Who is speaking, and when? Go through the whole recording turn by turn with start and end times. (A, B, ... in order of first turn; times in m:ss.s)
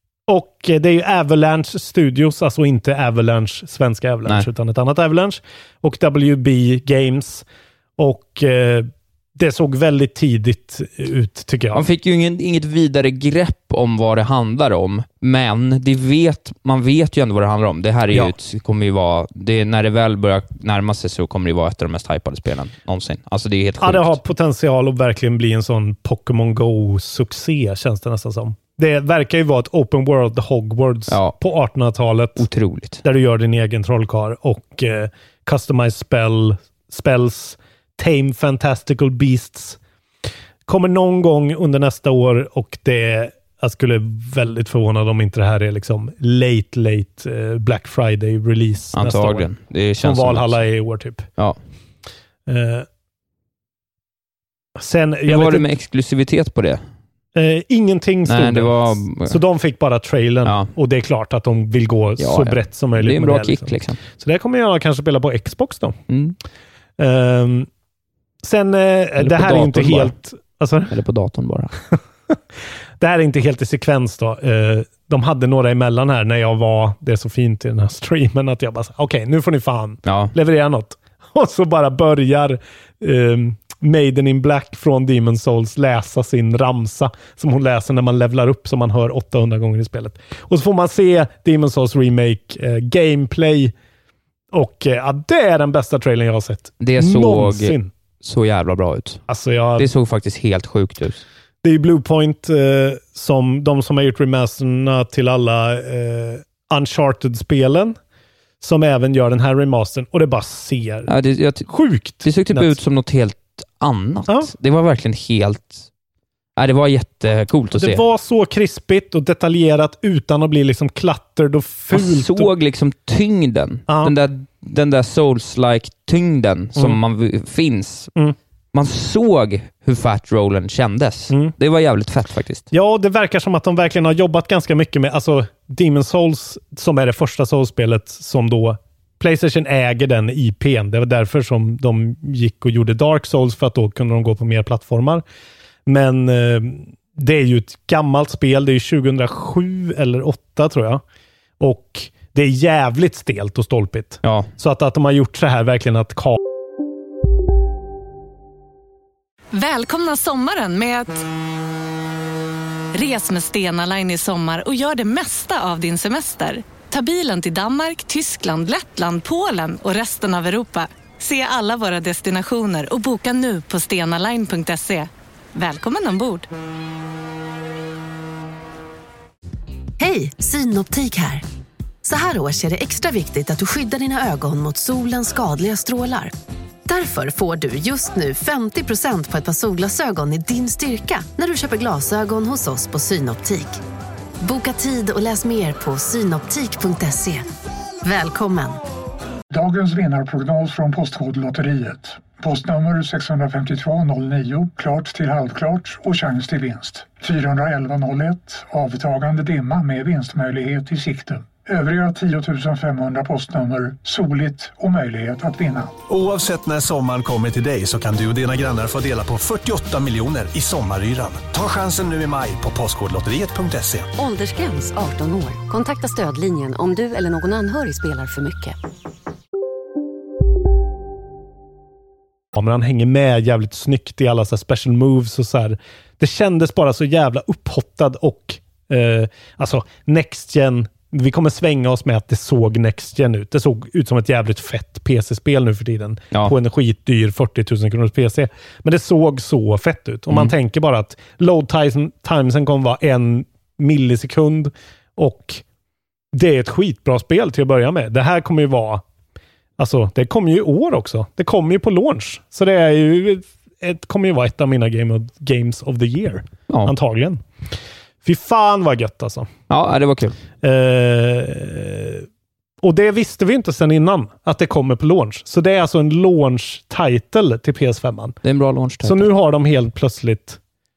0:00.3-0:07.5 A
0:08.0-0:11.8 A
0:11.7-0:24.2 B
0:23.8-0:32.4 A
0:31.1-0:31.4 B
0:32.4-0:33.0 B
0:33.0-0:39.8 A
0:40.7-0:49.5 A
0:48.9-0:50.6 B
0:50.0-0:51.3 A
0:52.5-0:52.9 A
0:54.8-0:55.7 A
0:55.3-0:56.8 B
0:57.4-1:06.0 A
0:58.3-0:59.4 B
1:00.4-1:00.7 B
1:02.2-1:04.0 B
1:06.1-1:06.4 B
1:07.0-1:07.7 A
1:08.4-1:10.9 A
1:09.2-1:10.1 B
1:10.9-1:11.7 B
1:11.9-1:12.4 A
1:13.0-1:33.7 A
1:20.0-1:20.3 B
1:34.5-1:37.9 A
1:36.8-1:39.2 B
1:39.3-1:39.9 A
1:39.8-1:41.2 B
1:41.6-1:48.0 A
1:48.6-1:51.1 A
1:51.1-1:51.7 B
1:51.7-1:52.8 A
1:52.2-1:55.9 B
1:54.3-1:54.5 A
1:56.6-1:58.0 B
1:57.8-2:02.5 A
2:01.9-2:08.1 B
2:03.9-2:04.1 A
2:08.7-2:12.7 B
2:12.7-2:25.2 A
2:25.9-2:31.0 A
2:31.6-2:36.4 A
2:34.2-2:34.5 B
2:39.5-2:41.2 C
2:42.9-2:56.5 C
3:00.0-3:01.4 D
3:02.0-3:06.3 D
3:06.9-3:13.8 D
3:14.4-3:17.5 D
3:18.0-3:18.8 D
3:19.5-3:36.0 E
3:36.1-3:44.1 F
3:44.2-3:48.8 G
3:52.5-4:15.6 A
4:16.3-4:19.0 A
4:19.8-4:27.4 A
4:28.2-4:29.5 A
4:29.7-4:30.4 B
4:30.6-4:32.3 A
4:32.8-4:38.4 A
4:38.4-4:39.3 B
4:39.0-4:40.6 A